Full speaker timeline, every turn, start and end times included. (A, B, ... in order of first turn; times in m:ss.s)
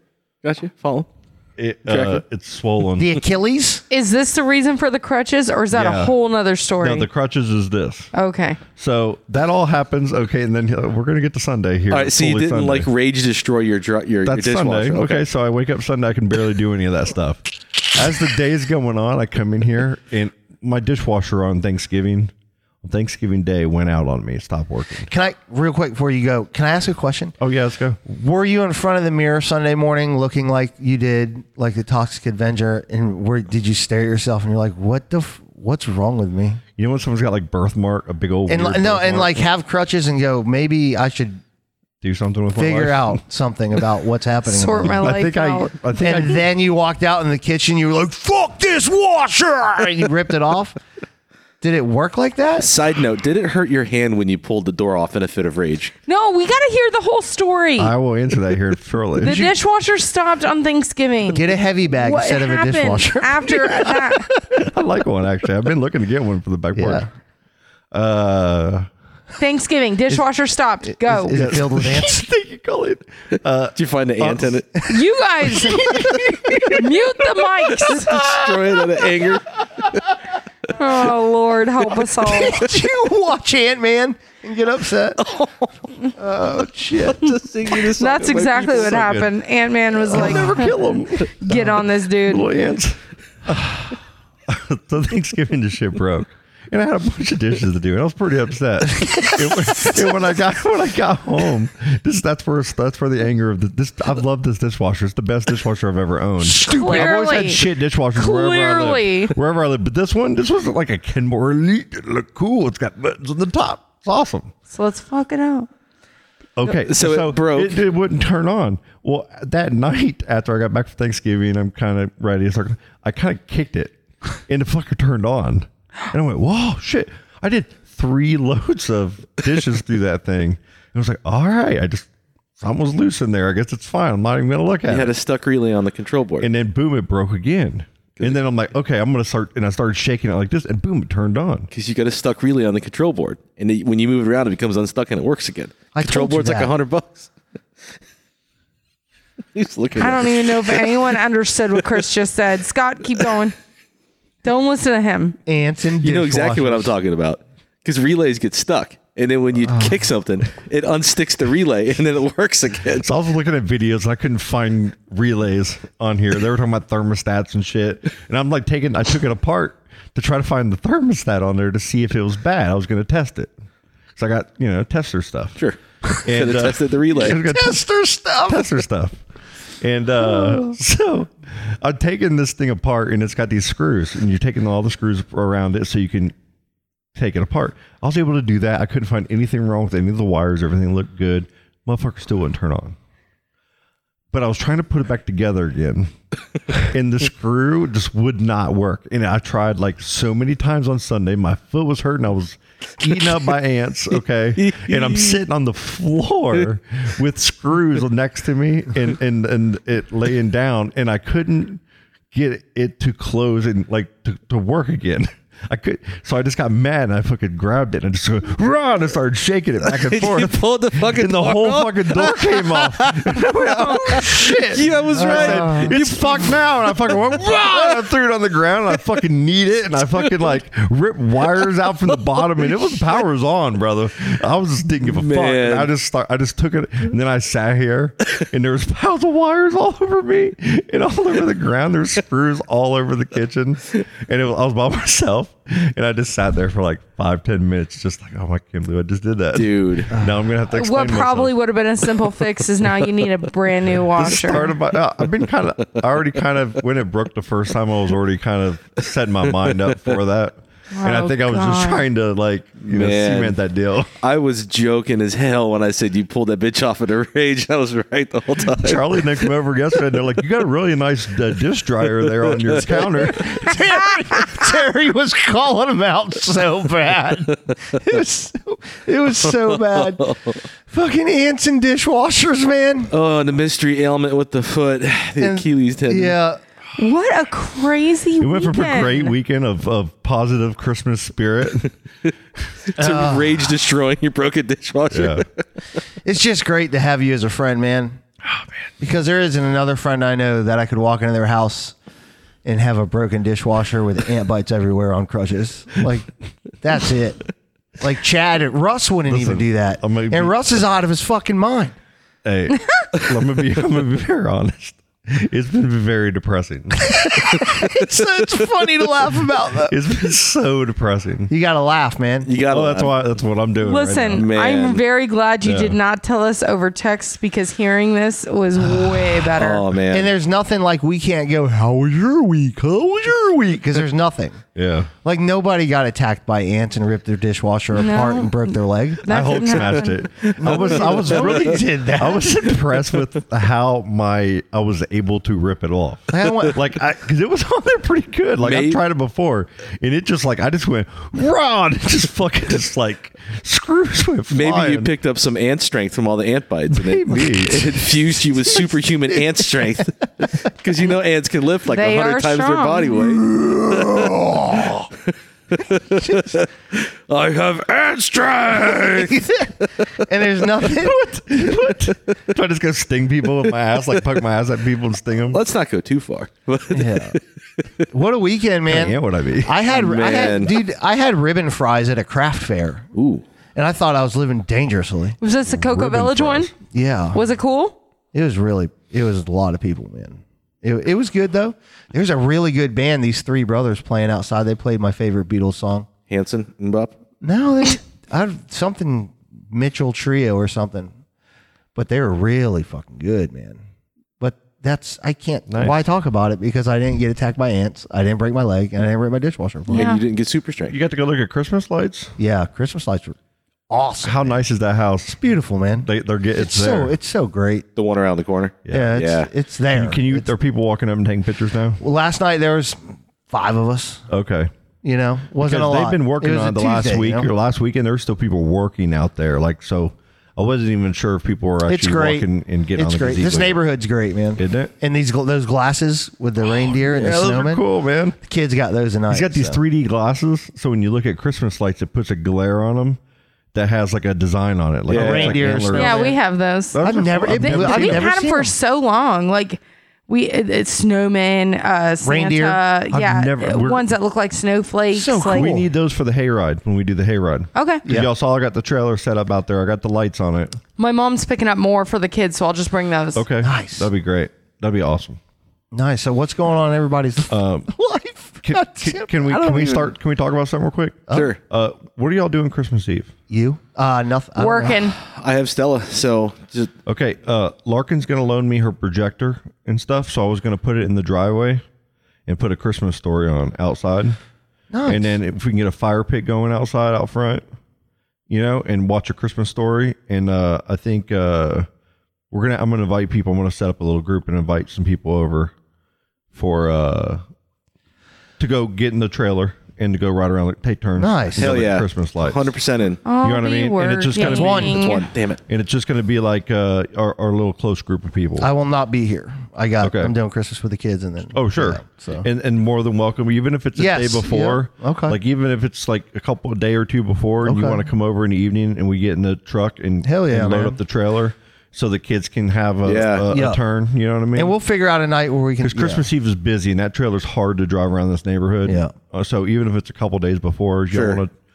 0:00.4-0:01.1 A
0:01.6-0:03.2 B
0:01.9-0:02.2 A
0:03.0-0:03.8 C
0:03.9-0:07.1 D
0:05.7-0:06.2 B
0:06.8-0:08.1 B
0:08.1-0:08.6 D
0:08.8-0:12.9 B
0:11.9-0:15.2 A
0:14.2-0:22.3 B
0:22.8-0:25.1 B
0:25.1-0:27.4 C
0:27.4-0:28.0 B
0:28.0-0:36.6 C
0:36.8-0:39.4 B
0:38.5-0:41.4 C
0:42.0-0:43.2 B
0:42.5-0:45.2 C
0:44.5-0:45.7 D
0:44.8-0:46.5 B
0:46.0-0:50.8 C
0:51.6-0:52.7 C
0:52.6-0:55.9 A
0:56.1-0:57.9 D
0:57.8-0:59.5 B
0:59.2-1:04.2 D
1:01.3-1:04.6 C
1:04.6-1:07.1 B
1:06.8-1:07.1 C
1:07.9-1:08.9 B
1:09.4-1:11.4 D
1:11.0-1:12.2 C
1:11.3-1:16.8 B
1:13.8-1:14.7 A
1:14.9-1:16.1 D
1:16.7-1:18.2 D
1:17.9-1:20.0 A
1:20.7-1:22.6 D
1:22.2-1:25.2 C
1:25.2-1:25.7 A
1:26.2-1:27.2 C
1:27.0-1:29.0 A
1:28.0-1:30.7 D
1:28.7-1:29.3 B
1:30.0-1:34.0 B
1:30.1-1:30.6 C
1:31.4-1:32.5 D
1:34.5-1:54.5 B
1:46.6-1:47.6 D
1:46.6-1:47.0 C
1:48.2-1:49.4 D
1:54.7-1:55.7 D
1:56.6-2:03.9 B
1:56.6-1:57.8 A
2:04.5-2:15.1 B
2:14.9-2:16.5 A
2:16.4-2:21.7 B
2:21.7-2:27.3 A
2:25.9-2:26.7 C
2:29.5-2:31.1 A
2:30.0-2:33.6 D
2:34.4-2:35.4 D
2:35.5-2:36.9 C
2:36.0-2:43.1 A
2:43.0-2:53.5 B
2:54.2-2:55.6 B
2:55.6-2:57.4 A
2:56.2-2:57.9 B
2:57.2-2:58.7 C
2:58.4-2:59.2 B
2:59.8-3:06.3 B
3:07.2-3:13.0 B
3:14.3-3:16.1 B
3:16.7-3:31.8 B
3:24.6-3:25.4 A
3:32.3-4:11.5 B
3:39.8-3:48.1 A
3:45.1-3:46.0 C
3:52.4-3:52.9 A
3:55.0-3:55.9 A
4:09.5-4:10.1 A
4:10.7-4:14.7 D
4:14.2-4:24.1 B
4:19.8-4:20.2 A
4:20.9-4:22.1 D
4:22.9-4:23.6 A
4:24.2-4:29.5 A
4:28.8-4:33.7 B
4:32.4-4:33.3 A
4:32.9-4:40.4 C
4:39.4-4:40.6 A
4:40.9-4:43.1 C
4:43.1-4:46.4 A
4:45.4-4:46.6 C
4:47.0-4:49.3 D
4:48.4-4:51.9 B
4:52.9-4:55.6 A
4:53.0-4:53.7 C
4:55.1-4:55.4 B
4:56.2-4:58.2 C
4:59.0-5:02.0 C
5:02.6-5:12.0 C
5:09.3-5:10.6 B
5:12.4-5:17.3 B
5:17.1-5:20.0 C
5:19.9-5:21.5 B
5:21.5-5:22.5 C
5:22.4-5:23.1 A
5:22.6-5:24.5 B
5:23.8-5:29.8 D
5:24.3-5:25.0 A
5:25.6-5:26.0 B
5:29.6-5:30.3 A
5:30.1-5:34.6 C
5:34.8-5:35.1 B
5:35.2-5:39.4 C
5:38.0-5:40.2 D
5:39.3-5:55.1 B
5:40.4-5:41.8 A
5:40.6-5:42.5 C
5:46.3-5:47.0 C
5:48.6-5:49.0 A
5:54.5-6:04.9 A
5:56.9-5:58.1 B
6:01.9-6:03.2 D
6:03.3-6:05.1 C
6:05.7-6:10.1 A
6:06.2-6:06.5 C
6:08.8-6:09.7 C
6:10.2-6:11.4 C
6:11.0-6:15.6 B
6:12.1-6:12.4 A
6:15.5-6:17.4 A
6:16.9-6:17.4 C
6:18.1-6:23.1 C
6:18.9-6:19.8 B
6:19.9-6:20.8 A
6:23.2-6:23.4 A
6:23.8-6:25.4 C
6:25.4-6:26.7 D
6:25.7-6:26.7 B
6:26.9-6:27.4 C
6:27.3-6:28.0 D
6:28.3-6:36.1 C
6:36.3-6:37.1 A
6:37.4-6:41.1 C
6:42.0-6:43.8 C
6:44.4-6:50.1 C
6:45.7-6:46.0 B
6:49.9-6:51.0 A
6:49.9-6:50.2 D
6:50.9-6:52.3 B
6:52.4-6:53.4 C
6:53.9-6:54.6 C
6:54.2-6:55.4 B
6:55.3-6:57.9 C
6:56.0-6:57.2 B
6:58.0-6:59.5 A
6:58.9-6:59.2 B
6:58.9-7:00.5 C
6:59.9-7:02.0 B
7:02.0-7:04.2 C
7:04.3-7:04.7 B
7:05.0-7:07.5 C
7:05.6-7:13.8 B
7:11.9-7:17.8 C
7:14.6-7:14.9 B
7:16.7-7:18.4 B
7:18.4-7:19.8 C
7:19.3-7:23.2 B
7:23.7-7:26.4 B
7:25.1-7:25.7 A
7:25.1-7:26.4 C
7:25.9-7:35.7 D
7:26.9-7:28.3 B
7:27.0-7:28.7 C
7:32.2-7:32.8 C
7:33.1-7:34.1 B
7:35.1-7:35.9 C
7:35.5-7:40.8 B
7:37.8-7:38.0 D
7:41.0-7:43.4 D
7:43.4-7:45.4 B
7:43.6-7:44.1 C
7:45.9-7:50.1 C
7:47.5-7:47.9 B
7:48.6-7:53.3 B
7:51.3-7:51.6 A
7:53.5-7:55.0 C
7:54.6-7:55.2 D
7:55.2-7:56.9 A
7:57.1-8:01.8 B
8:02.5-8:04.4 B
8:04.9-8:05.4 C
8:05.1-8:07.6 B
8:08.5-8:11.9 B
8:12.5-8:15.7 B
8:16.5-8:17.4 B
8:18.6-8:22.7 B
8:21.2-8:21.8 C
8:21.6-8:23.2 A
8:23.2-8:25.3 D
8:23.4-8:25.0 B
8:24.4-8:25.1 C
8:24.7-8:25.6 A
8:25.7-8:28.7 B
8:28.6-8:32.5 C
8:30.0-8:30.3 B
8:31.5-8:44.8 B
8:34.0-8:35.4 C
8:37.6-8:38.0 C
8:40.2-8:41.0 C
8:43.0-8:43.5 A
8:43.5-8:43.8 C
8:44.6-8:46.2 C
8:45.8-8:51.5 B
8:48.8-8:49.1 C
8:51.1-8:51.4 A